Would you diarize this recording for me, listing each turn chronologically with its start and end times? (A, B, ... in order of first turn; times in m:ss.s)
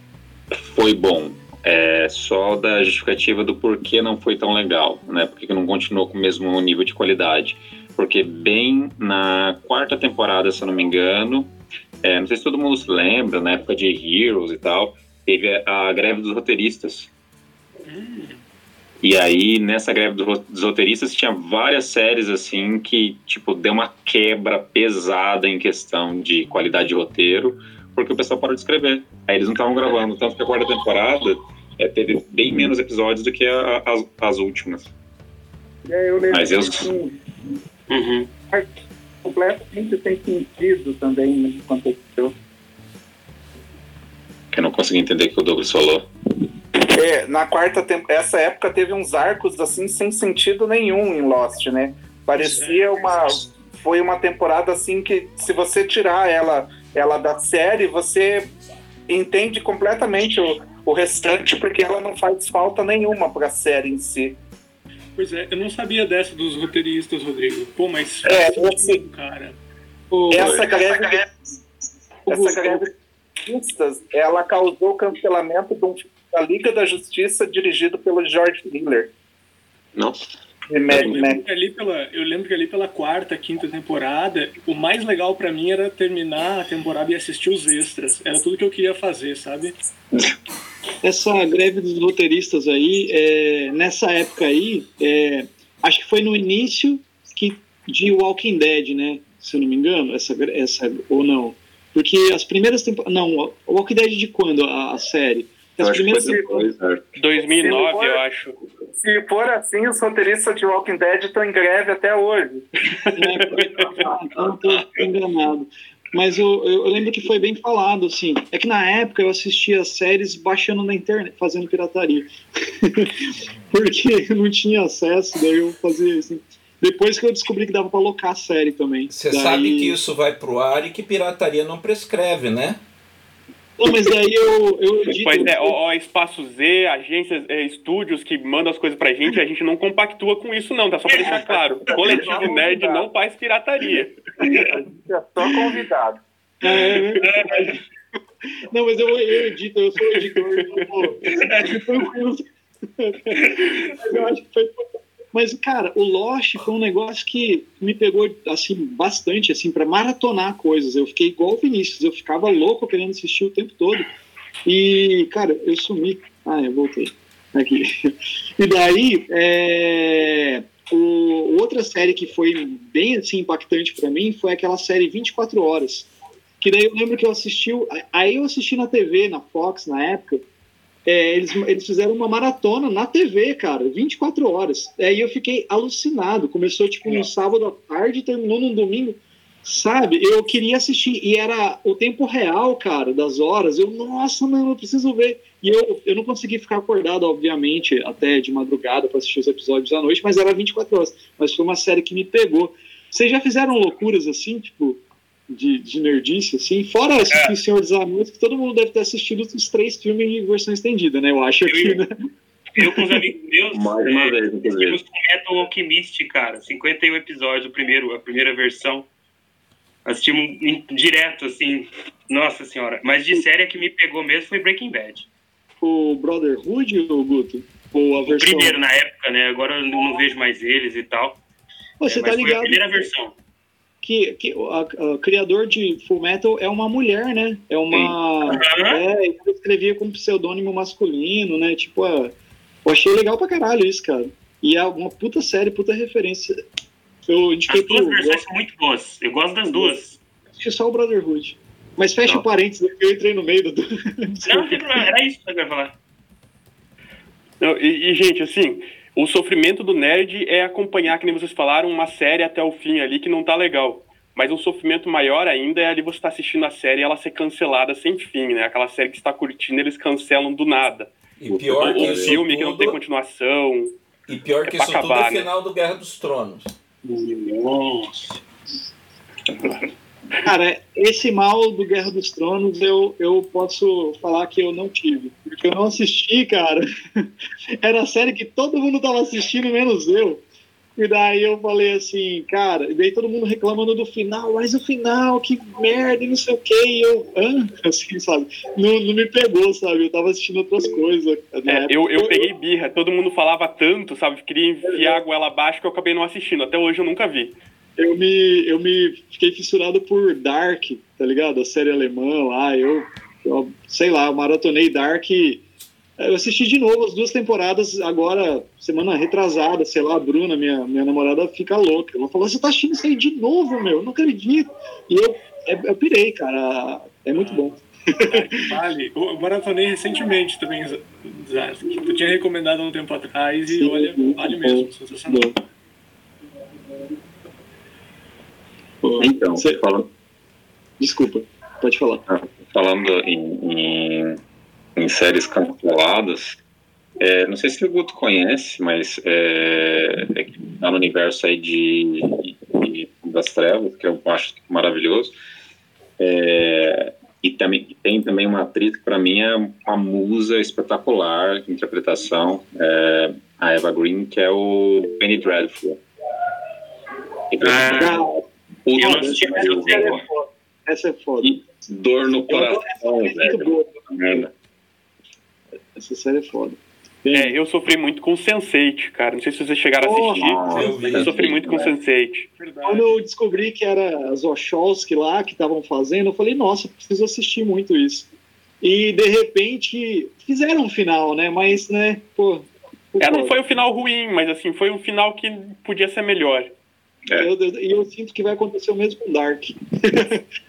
0:00.5-0:11.5 A
0:12.0-0:17.1 A
0:17.9-0:18.4 B
0:19.0-0:34.9 A
0:35.9-0:37.2 C
0:36.3-0:36.9 A
0:37.9-0:38.3 D
0:39.2-0:42.3 C
0:44.5-0:46.1 A
0:46.9-0:58.5 C
0:59.1-1:04.4 C
1:05.2-1:09.6 B
1:08.2-1:09.0 C
1:10.1-1:11.1 E
1:10.3-1:11.3 C
1:10.3-1:10.6 A
1:12.3-1:12.9 C
1:12.3-1:12.9 E
1:13.4-1:19.1 C
1:20.0-1:20.2 A
1:20.7-1:21.4 C
1:20.9-1:21.2 A
1:20.9-1:29.7 B
1:31.0-1:46.7 E
1:45.8-1:47.2 A
1:47.2-1:48.5 F
1:47.4-1:48.2 C
1:49.0-1:52.7 C
1:53.2-2:10.0 E
1:53.5-1:53.9 F
2:09.1-2:12.8 G
2:13.8-2:15.8 E
2:15.2-2:24.1 F
2:21.2-2:23.1 C
2:24.4-2:26.2 C
2:26.6-2:27.8 E
2:27.2-2:27.7 D
2:28.7-2:32.5 E
2:31.3-2:31.7 D
2:33.0-2:44.1 E
2:44.6-2:56.1 E
2:56.6-3:00.4 E
3:01.0-3:32.1 E
3:31.7-3:32.0 D
3:32.8-3:39.1 D
3:32.8-3:33.0 E
3:33.7-3:35.0 A
3:40.0-3:45.3 D
3:45.8-3:48.8 E
3:48.3-3:51.4 D
3:52.0-3:53.0 E
3:52.0-3:53.3 D
3:54.0-4:02.3 E
3:58.5-3:59.0 D
4:02.8-4:06.6 E
4:07.3-4:08.4 E
4:07.7-4:10.2 D
4:10.6-4:15.1 E
4:14.4-4:15.9 D
4:17.6-4:34.0 F
4:31.4-4:33.0 G
4:31.8-4:32.4 A
4:34.3-4:36.7 G
4:34.6-4:35.5 F
4:37.0-4:38.4 D
4:40.4-4:47.3 E
4:47.8-4:50.4 E
4:51.0-5:02.5 E
5:01.7-5:07.6 F
5:04.8-5:05.2 E
5:08.0-5:15.6 E
5:16.2-5:28.4 E
5:27.4-5:35.6 B
5:33.7-5:35.5 E
5:39.0-5:39.8 E
5:39.2-5:40.1 A
5:41.0-5:42.2 E
5:42.3-5:44.4 A
5:45.0-5:46.6 A
5:47.2-5:55.3 A
5:56.2-6:06.0 A
6:07.5-6:10.2 A
6:07.6-6:08.2 D
6:07.9-6:08.4 E
6:08.9-6:10.2 D
6:09.0-6:11.6 E
6:11.4-6:14.5 A
6:12.5-6:14.5 E
6:15.9-6:17.5 E
6:17.3-6:22.5 F
6:20.0-6:20.5 E
6:20.3-6:21.9 A
6:20.7-6:21.4 G
6:22.6-6:23.2 B
6:22.8-6:28.3 E
6:28.8-6:33.5 E
6:33.2-6:36.7 F
6:37.4-6:40.4 E